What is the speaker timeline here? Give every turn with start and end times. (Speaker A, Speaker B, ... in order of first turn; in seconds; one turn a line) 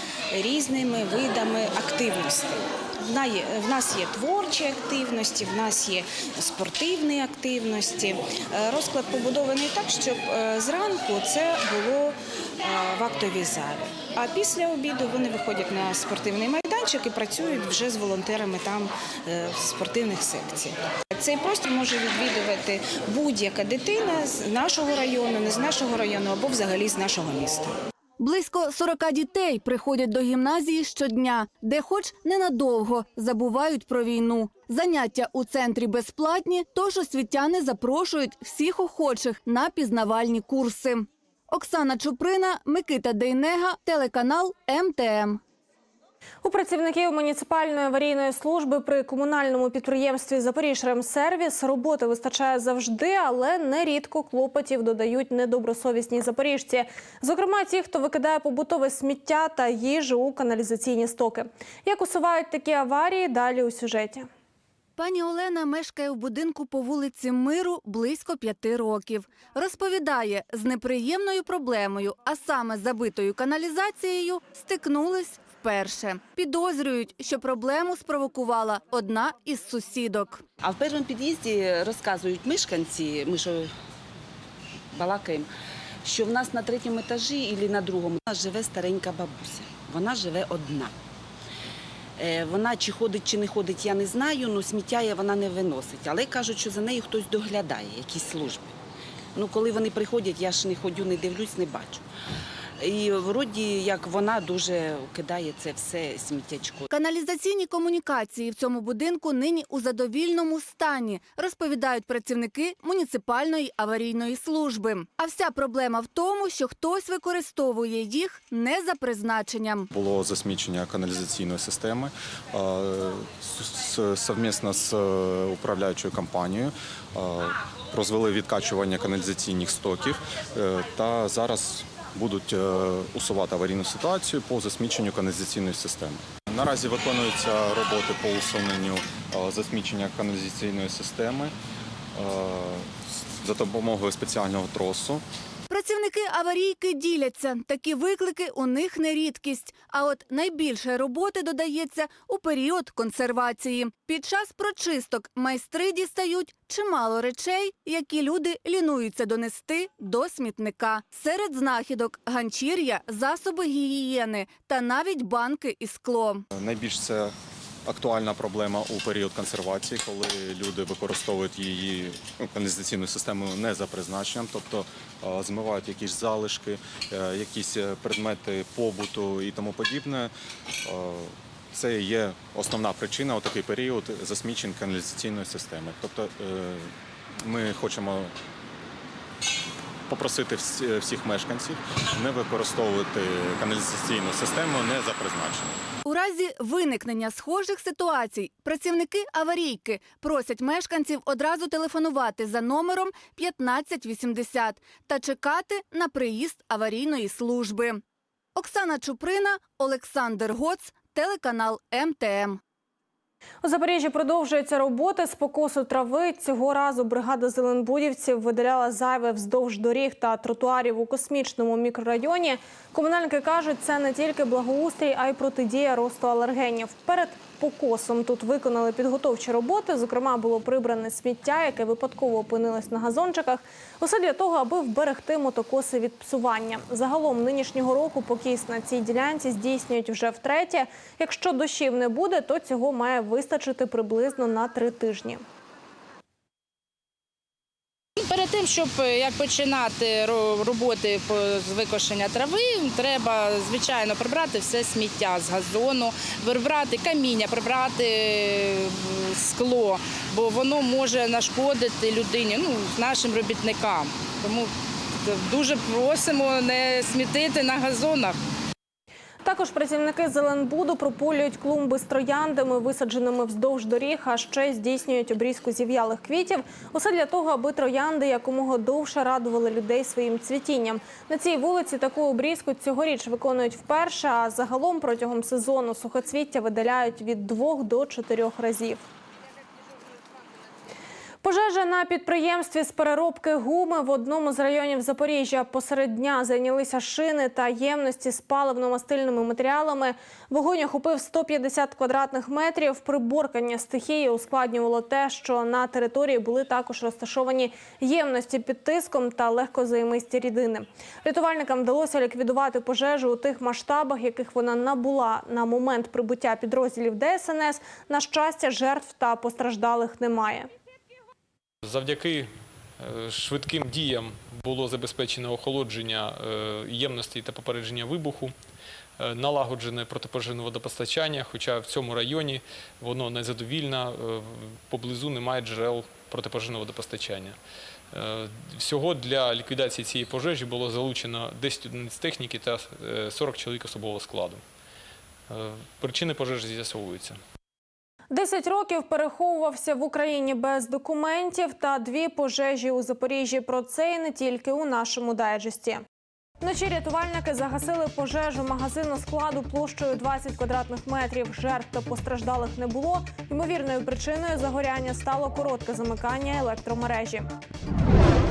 Speaker A: 0.3-27.8
Speaker B: 28.2-45.4
Speaker C: 46.4-64.3
Speaker B: 65.0-80.4
Speaker D: 80.6-83.7
Speaker D: 84.9-85.5
Speaker D: 86.0-91.0
Speaker D: 92.2-98.7
Speaker D: 99.3-102.0
Speaker D: 102.8-106.9
Speaker B: 106.9-119.9
Speaker E: 119.9-141.5
Speaker E: 142.2-145.2
Speaker B: 145.7-166.4
Speaker E: 166.5-167.3
Speaker E: 167.8-180.3
Speaker E: 180.8-188.3
Speaker E: 190.1-195.8
Speaker B: 196.1-208.0
Speaker B: 208.6-212.6
Speaker C: 213.6-245.4
Speaker F: 248.2-268.4
Speaker C: 269.4-289.0
Speaker C: 291.4-320.7
Speaker G: 321.8-328.5
Speaker G: 329.2-337.6
Speaker G: 338.1-344.6
Speaker G: 345.5-347.4
Speaker C: 348.3-356.0
Speaker C: 356.6-367.5